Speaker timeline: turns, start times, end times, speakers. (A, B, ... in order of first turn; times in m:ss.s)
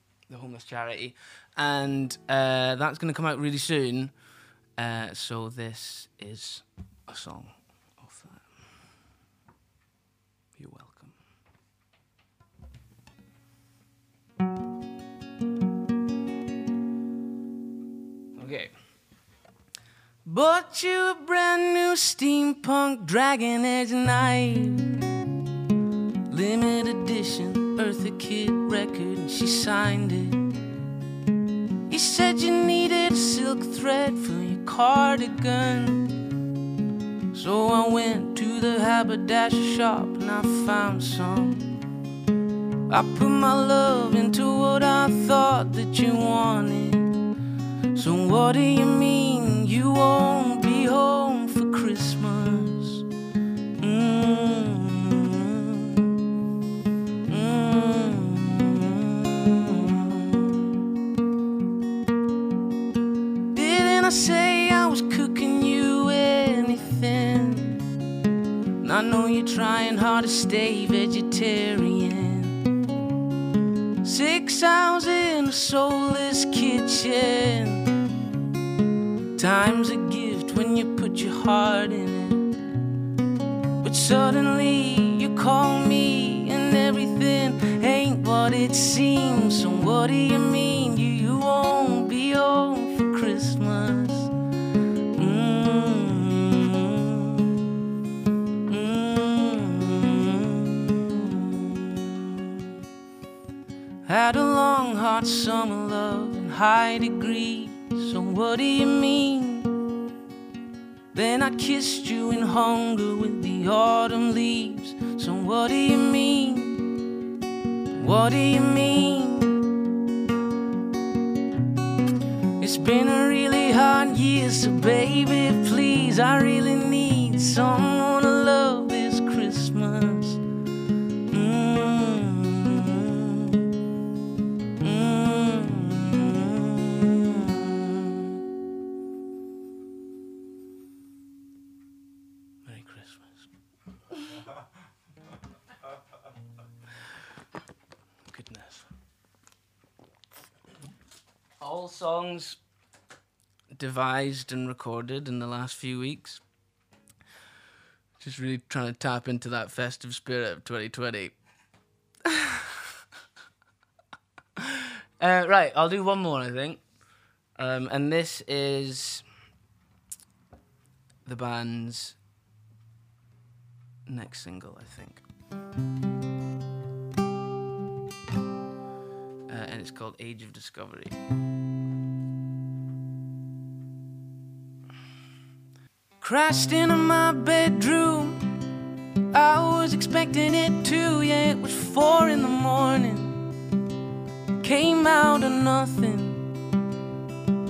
0:00.3-0:04.1 A
0:04.8-0:08.4 A
0:10.6-0:11.1 A
0:18.4-0:18.7 A
0:20.2-0:24.9 A
0:26.3-0:30.4 A
0:31.9-0:36.1 A
0:37.3-0:41.7 A
0:42.9-0:47.1 A
0:47.9-0:53.0 A
0:53.8-0:56.1 A
0:57.3-1:00.7 A
1:03.5-1:07.8 A
1:08.8-1:12.6 A
1:14.0-1:17.9 A
1:19.4-1:22.5 A
1:23.8-1:34.3 A
1:35.2-1:37.5 A
1:38.7-1:42.5 A
1:44.0-1:49.7 A
1:51.1-1:56.9 A
1:58.0-1:59.7 A
2:02.6-2:10.4 A
2:11.3-2:13.6 A
2:14.8-2:18.4 A
2:22.7-2:23.4 A
2:28.3-2:28.9 A
2:31.6-2:32.6 A
2:33.8-2:36.4 A
2:38.2-2:41.3 A
2:45.2-2:46.8 A
2:47.6-2:49.2 A
2:51.2-2:52.1 A
2:54.1-2:55.2 A
2:59.5-3:01.1 A
3:06.2-3:08.4 A
3:09.3-3:13.4 A
3:14.6-3:16.4 A